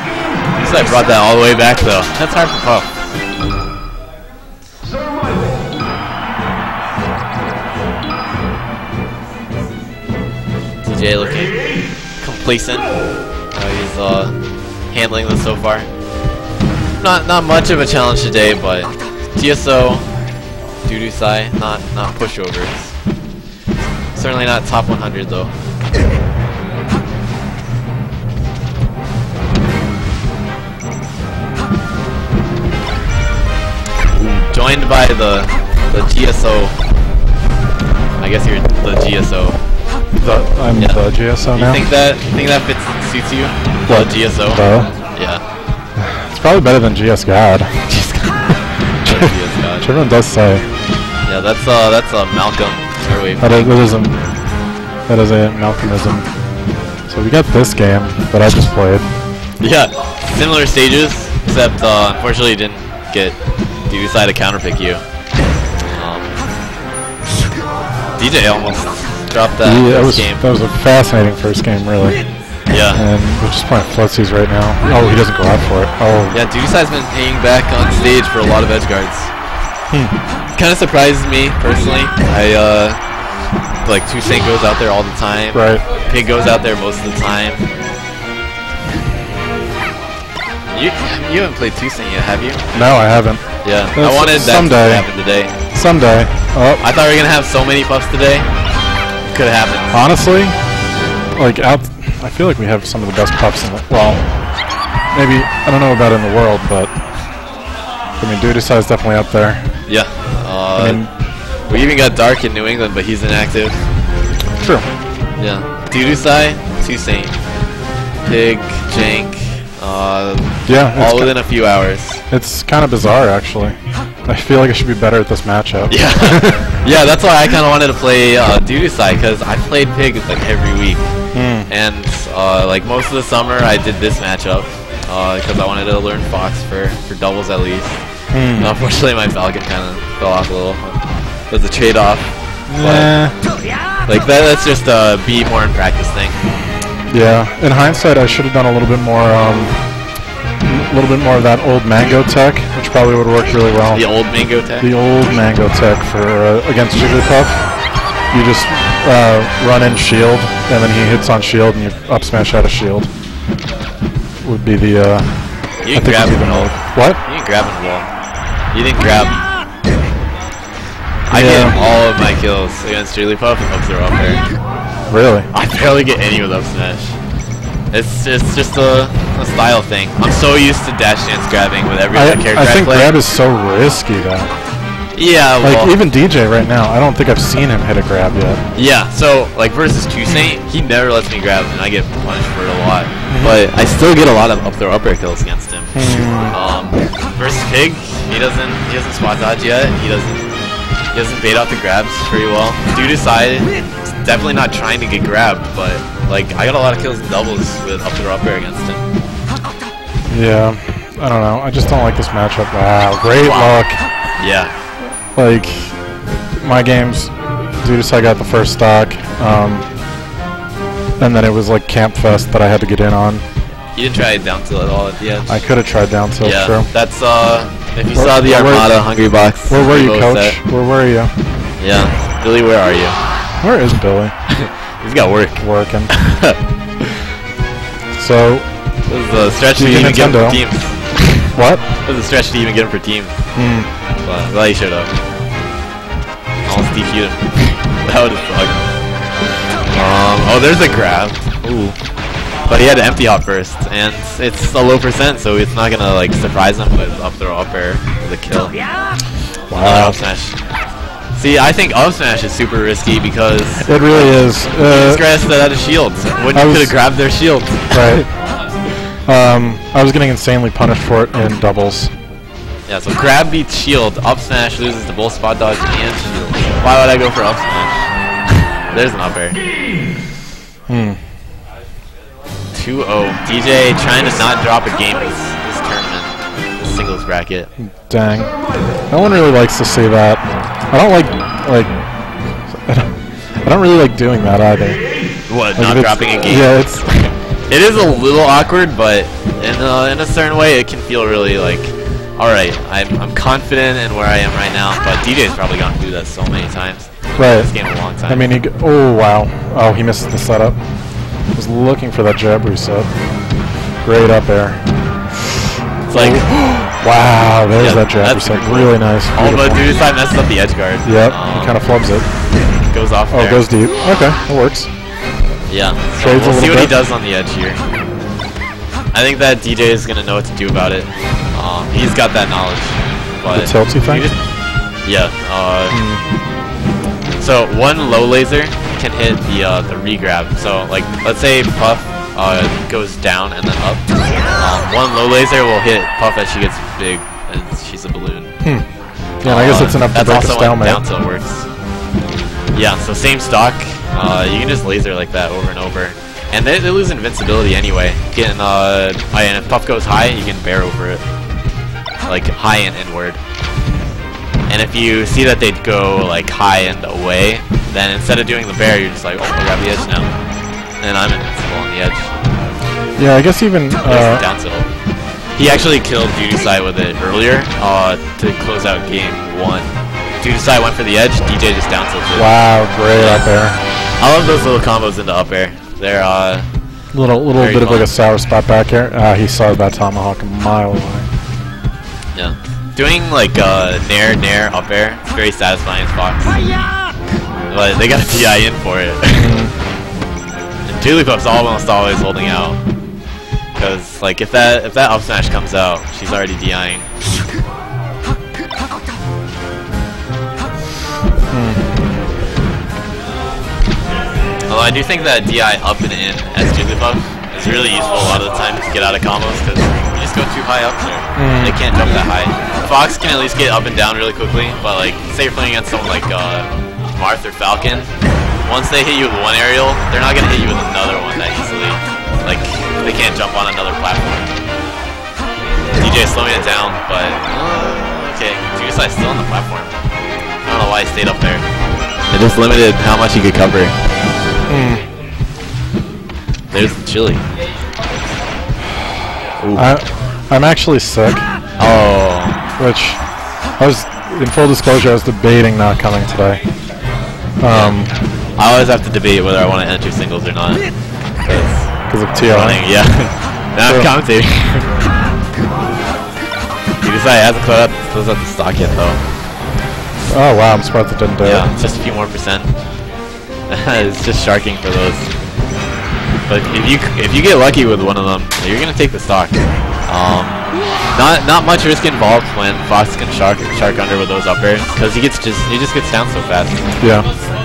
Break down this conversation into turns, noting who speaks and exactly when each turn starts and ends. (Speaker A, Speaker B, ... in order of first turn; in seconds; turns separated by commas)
Speaker A: 0.6-2.9, Speaker A: 10.8-11.6, Speaker A: 12.2-12.9, Speaker A: 13.5-14.3, Speaker A: 14.9-15.9, Speaker A: 17.0-20.1, Speaker A: 20.9-22.9, Speaker A: 24.1-25.5, Speaker A: 34.1-36.8, Speaker A: 38.2-39.6, Speaker B: 40.2-41.8, Speaker A: 41.5-44.6, Speaker B: 43.9-44.9, Speaker A: 45.1-45.4, Speaker B: 46.0-47.9, Speaker A: 47.9-48.5, Speaker A: 49.0-49.9, Speaker B: 49.0-50.6, Speaker A: 51.3-53.7, Speaker B: 53.4-54.1, Speaker B: 55.1-56.3, Speaker B: 57.1-59.1, Speaker A: 59.6-63.4, Speaker A: 63.9-65.0, Speaker A: 65.9-66.4, Speaker A: 68.2-70.4, Speaker B: 69.6-72.2, Speaker A: 72.7-73.0, Speaker B: 73.0-76.4, Speaker A: 76.3-79.3, Speaker A: 80.6-83.0, Speaker A: 83.8-87.7, Speaker B: 85.5-85.8, Speaker A: 90.7-92.6, Speaker B: 92.7-93.4, Speaker A: 93.6-95.5, Speaker B: 94.0-95.1, Speaker B: 95.7-96.8, Speaker A: 96.8-98.5, Speaker A: 99.3-99.9, Speaker B: 99.9-100.6, Speaker B: 101.4-104.2, Speaker B: 105.1-106.9, Speaker B: 108.2-109.6, Speaker A: 109.9-111.0, Speaker B: 110.8-111.1, Speaker A: 111.7-113.9, Speaker B: 114.6-114.9, Speaker A: 115.4-117.4, Speaker A: 118.2-122.2, Speaker B: 120.7-121.3, Speaker B: 122.3-126.6, Speaker A: 125.9-131.1, Speaker B: 131.3-131.7, Speaker A: 131.7-138.0, Speaker B: 138.3-138.7, Speaker A: 138.6-141.0, Speaker A: 141.5-143.1, Speaker B: 142.7-143.3, Speaker A: 144.1-146.4, Speaker B: 147.1-149.7, Speaker B: 150.6-154.1, Speaker A: 153.9-154.9, Speaker B: 154.8-157.7, Speaker B: 158.3-163.1, Speaker B: 164.4-165.4, Speaker A: 165.8-168.1, Speaker B: 165.9-167.2, Speaker A: 168.7-169.3, Speaker A: 171.3-174.4, Speaker B: 171.3-171.8, Speaker B: 175.1-175.5, Speaker A: 175.5-177.2, Speaker A: 177.9-183.1, Speaker B: 182.1-184.5, Speaker A: 185.1-185.9, Speaker B: 185.6-188.6, Speaker A: 188.8-200.4, Speaker B: 193.3-193.6, Speaker B: 195.9-196.6, Speaker A: 201.1-203.7, Speaker A: 204.2-209.0, Speaker B: 210.3-214.0, Speaker A: 213.4-213.8, Speaker A: 214.4-214.7, Speaker B: 215.3-219.9, Speaker B: 221.2-223.4, Speaker A: 223.9-225.6, Speaker B: 225.5-226.9, Speaker A: 226.4-230.6, Speaker B: 228.2-229.0, Speaker B: 229.7-231.3, Speaker A: 231.8-233.2, Speaker B: 233.6-234.3, Speaker A: 234.5-236.6, Speaker B: 235.6-236.1, Speaker B: 238.1-238.7, Speaker A: 239.1-241.4, Speaker B: 239.8-240.6, Speaker B: 241.5-241.8, Speaker A: 242.1-243.3, Speaker B: 243.6-243.9, Speaker A: 244.2-245.1, Speaker A: 246.7-248.8, Speaker A: 249.9-251.9, Speaker A: 252.7-258.8, Speaker B: 259.7-260.2, Speaker A: 259.8-260.6, Speaker A: 261.4-268.2, Speaker B: 263.9-265.2, Speaker B: 266.5-267.0, Speaker B: 267.9-268.3, Speaker B: 269.3-272.1, Speaker A: 272.9-278.1, Speaker A: 278.9-279.6, Speaker B: 280.9-281.2, Speaker A: 282.7-287.7, Speaker B: 287.8-288.5, Speaker B: 289.1-291.9, Speaker B: 292.7-293.1, Speaker B: 293.6-295.0, Speaker A: 295.5-296.7, Speaker B: 295.8-297.3, Speaker A: 297.7-308.4, Speaker B: 307.4-307.7, Speaker B: 308.3-310.8, Speaker B: 311.5-313.1, Speaker B: 314.0-314.8, Speaker A: 316.1-316.6, Speaker B: 316.1-319.8, Speaker A: 317.8-321.8, Speaker B: 321.0-322.2, Speaker A: 322.9-323.7, Speaker B: 323.3-324.9, Speaker A: 325.7-327.8, Speaker B: 326.2-326.9, Speaker A: 329.1-334.4, Speaker B: 333.5-334.3, Speaker A: 335.1-336.0, Speaker B: 335.9-336.2, Speaker A: 337.4-344.0, Speaker A: 344.5-348.5, Speaker B: 349.4-351.0, Speaker A: 349.4-351.7, Speaker A: 352.7-361.2, Speaker A: 362.3-363.4, Speaker A: 364.7-370.3, Speaker A: 371.0-372.3, Speaker B: 373.2-374.4, Speaker A: 374.1-374.9, Speaker A: 375.6-379.9, Speaker A: 380.4-382.5, Speaker B: 382.4-383.8, Speaker A: 383.1-383.4, Speaker A: 384.2-386.7, Speaker B: 387.1-391.3, Speaker A: 387.6-388.1, Speaker A: 392.4-396.6, Speaker A: 397.7-399.6, Speaker B: 399.4-399.7, Speaker A: 400.9-402.8, Speaker A: 403.8-407.1, Speaker B: 411.5-411.8, Speaker A: 414.7-428.1, Speaker B: 421.4-421.8, Speaker A: 428.6-434.5, Speaker A: 436.0-439.9, Speaker A: 440.7-441.6, Speaker A: 442.3-443.9, Speaker B: 444.7-445.0, Speaker A: 446.7-447.4, Speaker A: 449.6-449.9, Speaker B: 449.8-451.5, Speaker A: 451.8-452.6, Speaker B: 452.8-453.2, Speaker B: 453.8-456.6, Speaker B: 457.6-458.1, Speaker A: 457.7-458.0, Speaker A: 458.6-460.8, Speaker A: 461.4-465.0, Speaker B: 462.1-462.8, Speaker B: 463.9-464.1, Speaker A: 467.0-469.2, Speaker B: 470.3-471.7, Speaker A: 471.4-472.7, Speaker A: 473.7-475.3, Speaker A: 476.5-479.6, Speaker A: 480.1-480.6, Speaker A: 481.1-486.8, Speaker B: 487.0-487.3